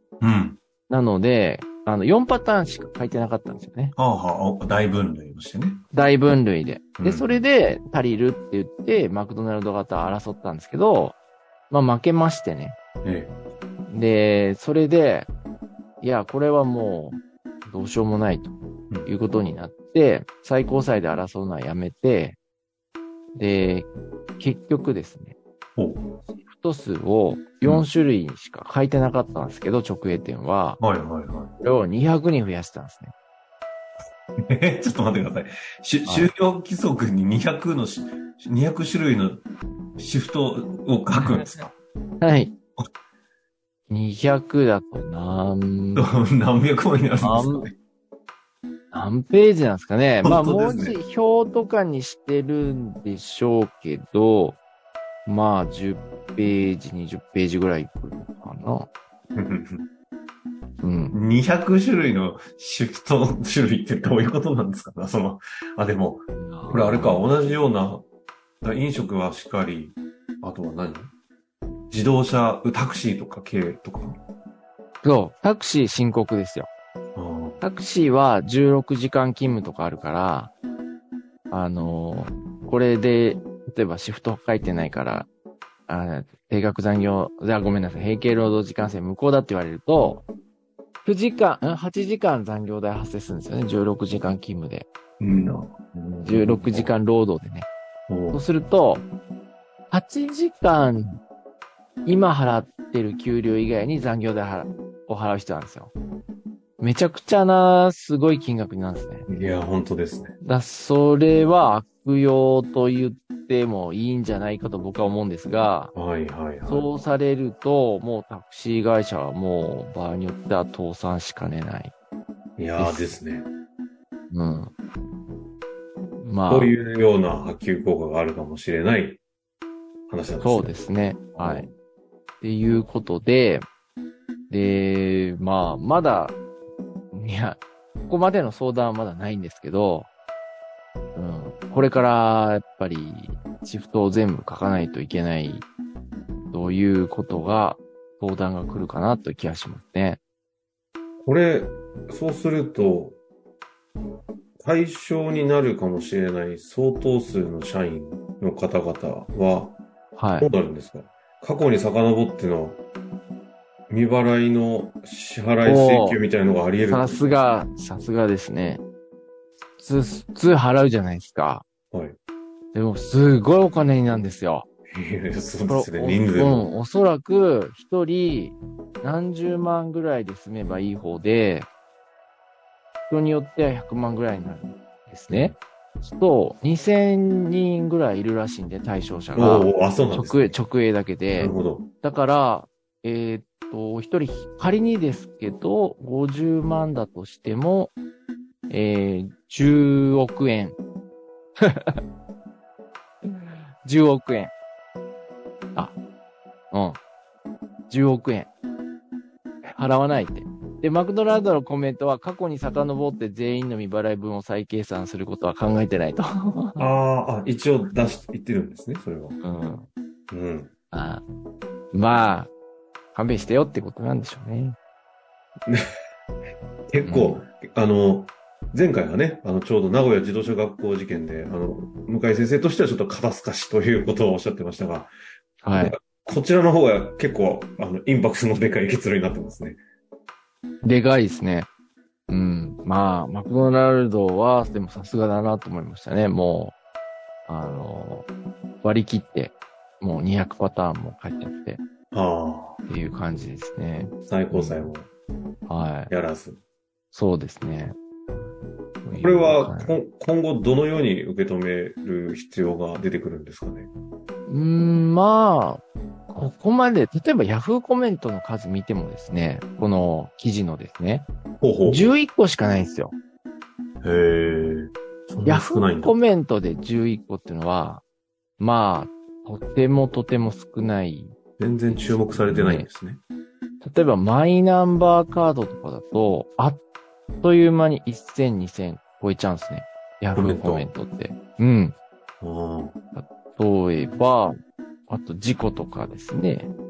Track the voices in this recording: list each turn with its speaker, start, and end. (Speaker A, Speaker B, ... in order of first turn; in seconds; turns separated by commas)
Speaker A: 0.2-0.6, Speaker B: 0.9-3.9, Speaker A: 4.0-5.8, Speaker B: 5.9-11.2, Speaker A: 7.0-7.4, Speaker B: 11.7-12.8, Speaker A: 13.0-13.3, Speaker B: 13.9-15.3, Speaker B: 16.0-18.5, Speaker B: 19.1-22.4, Speaker B: 23.3-25.4, Speaker A: 25.8-26.0, Speaker B: 26.3-30.8, Speaker A: 30.8-31.5, Speaker B: 31.6-33.1, Speaker A: 34.5-39.4, Speaker A: 40.0-41.7, Speaker B: 42.2-42.5, Speaker B: 43.9-46.0, Speaker A: 46.0-47.7, Speaker B: 47.2-47.7, Speaker B: 48.9-54.6, Speaker A: 50.2-51.0, Speaker B: 55.2-58.9, Speaker A: 59.3-59.9, Speaker B: 60.8-61.1, Speaker A: 61.1-68.0, Speaker B: 66.3-67.2, Speaker A: 68.6-71.1, Speaker A: 71.9-74.2, Speaker B: 75.0-76.7, Speaker A: 77.1-77.6, Speaker B: 77.6-80.5, Speaker B: 81.5-85.3, Speaker B: 85.9-90.2, Speaker B: 91.0-94.9, Speaker A: 95.2-96.9, Speaker B: 96.2-97.7, Speaker A: 98.1-98.4, Speaker B: 98.3-99.0, Speaker B: 99.9-101.2, Speaker B: 102.0-105.9, Speaker B: 106.8-109.2, Speaker A: 109.3-110.3, Speaker B: 110.4-115.9, Speaker A: 115.9-116.9, Speaker B: 116.7-121.9, Speaker A: 122.6-123.5, Speaker B: 122.8-123.2, Speaker B: 124.3-124.7, Speaker B: 126.2-126.7, Speaker A: 126.5-129.2, Speaker A: 130.1-130.8, Speaker B: 130.4-131.7, Speaker A: 131.4-131.7, Speaker B: 132.4-133.7, Speaker B: 134.5-136.4, Speaker B: 137.1-140.1, Speaker B: 141.1-145.7, Speaker B: 146.5-150.2, Speaker A: 151.2-153.2, Speaker A: 154.6-159.8, Speaker B: 160.2-160.5, Speaker A: 160.4-162.8, Speaker A: 163.9-167.3, Speaker B: 165.6-166.2, Speaker B: 166.8-168.8, Speaker B: 169.8-171.7, Speaker A: 171.9-172.2, Speaker B: 172.7-174.7, Speaker A: 174.9-176.7, Speaker B: 175.7-181.7, Speaker B: 183.1-197.9, Speaker A: 185.3-185.6, Speaker A: 189.3-190.5, Speaker A: 191.4-191.9, Speaker B: 198.7-200.8, Speaker B: 201.6-202.0, Speaker B: 203.8-204.5, Speaker B: 206.7-207.0, Speaker B: 207.9-208.5, Speaker B: 209.7-216.9, Speaker A: 216.8-219.4, Speaker B: 219.4-219.9, Speaker A: 220.3-220.7, Speaker B: 220.9-221.2, Speaker B: 221.9-222.5, Speaker B: 223.1-224.8, Speaker A: 226.9-235.1, Speaker B: 227.0-227.4, Speaker B: 235.6-235.9, Speaker A: 235.7-239.8, Speaker B: 240.8-241.7, Speaker B: 242.3-246.8, Speaker B: 247.5-248.3, Speaker B: 248.8-251.8, Speaker A: 252.1-252.8, Speaker B: 252.9-254.9, Speaker A: 254.3-255.1, Speaker B: 255.7-256.1, Speaker A: 256.1-256.6, Speaker B: 257.1-258.0, Speaker B: 259.0-260.0, Speaker A: 259.1-263.9, Speaker B: 264.5-271.3, Speaker A: 271.6-272.1, Speaker B: 271.8-273.1, Speaker A: 274.0-276.1, Speaker B: 275.4-278.0, Speaker B: 278.6-282.9, Speaker A: 281.6-283.2, Speaker B: 283.8-286.8, Speaker B: 287.4-291.9, Speaker A: 290.4-290.9, Speaker A: 292.4-292.9, Speaker B: 293.1-294.5, Speaker B: 295.1-296.7